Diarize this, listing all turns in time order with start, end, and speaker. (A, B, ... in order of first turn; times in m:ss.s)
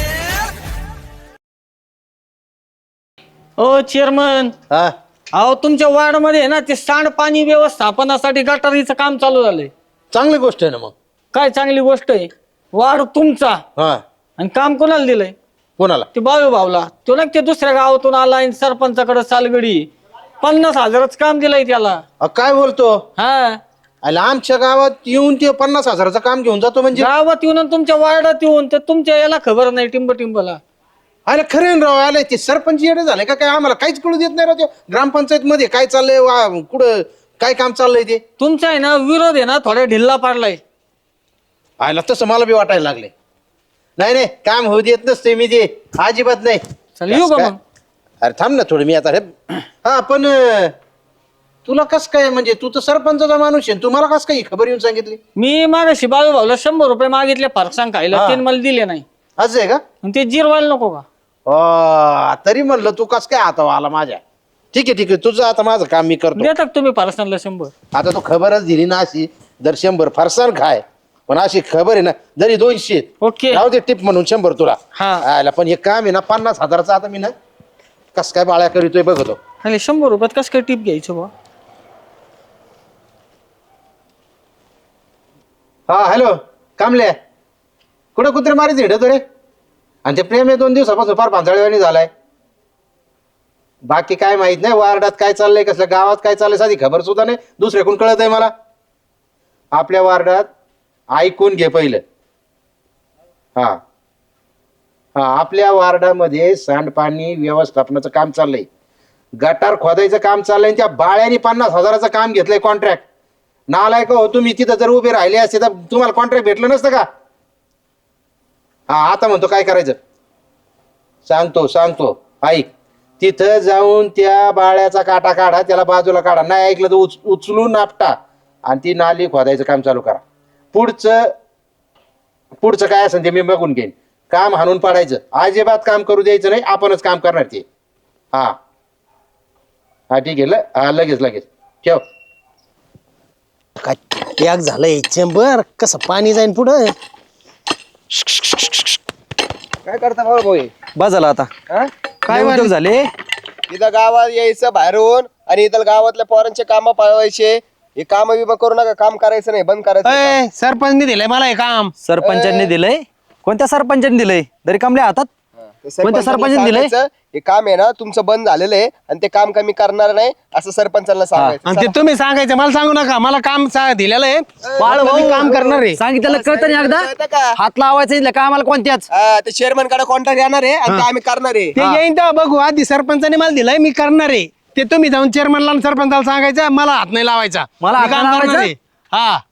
0:03.6-0:04.5 A
0:05.3-0:09.7 A
0:10.1-0:10.9 B
0:11.3-0:13.6 A
0:14.4-0:15.3 A
0:15.8-0:16.1 B
0:16.1-0:19.9 A
0:20.4-0:22.0 A
0:22.2-0:23.0 B
0:23.2-0:23.6 A
0:24.0-0:27.1 B
0:26.9-0:30.6 A
0:31.3-0:38.2 B
0:38.4-0:40.6 A
0:41.8-0:43.1 B
0:44.0-0:47.5 B
0:47.0-0:47.6 A
0:48.2-0:49.3 B
0:49.8-0:50.7 B
0:51.6-0:55.2 B
0:55.4-0:59.0 A
0:58.1-0:58.4 B
0:59.4-0:59.8 B
1:00.0-1:01.0 A
1:01.5-1:04.2 B
1:04.7-1:06.5 B
1:06.4-1:07.7 A
1:07.9-1:17.3 B
1:13.2-1:13.6 A
1:14.9-1:15.2 A
1:18.1-1:19.4 B
1:19.6-1:21.3 A
1:25.9-1:27.1 B
1:28.2-1:29.2 B
1:30.0-1:32.1 B
1:33.9-1:38.5 B
1:39.7-1:40.5 B
1:41.1-1:42.0 B
1:45.2-1:48.6 B
1:49.4-1:53.0 B
1:53.7-1:57.0 B
1:58.9-2:00.0 B
2:01.3-2:02.7 B
2:03.2-2:08.1 B
2:08.7-2:10.2 B
2:10.7-2:11.3 B
2:12.6-2:17.6 B
2:20.1-2:22.0 B
2:25.2-2:25.8 C
2:29.8-2:30.7 D
2:31.0-2:31.5 E
2:32.3-2:32.7 C
2:32.3-2:33.1 E
2:33.7-2:40.4 D
2:40.0-2:41.9 C
2:42.0-2:45.3 E
2:42.2-2:42.7 D
2:45.8-2:52.0 D
2:46.0-2:46.9 E
2:51.6-2:56.0 C
2:54.7-2:57.6 D
2:54.8-2:55.3 E
2:56.0-2:57.1 E
2:57.6-2:59.0 E
2:59.1-3:01.8 D
3:01.8-3:09.4 C
3:07.8-3:08.7 E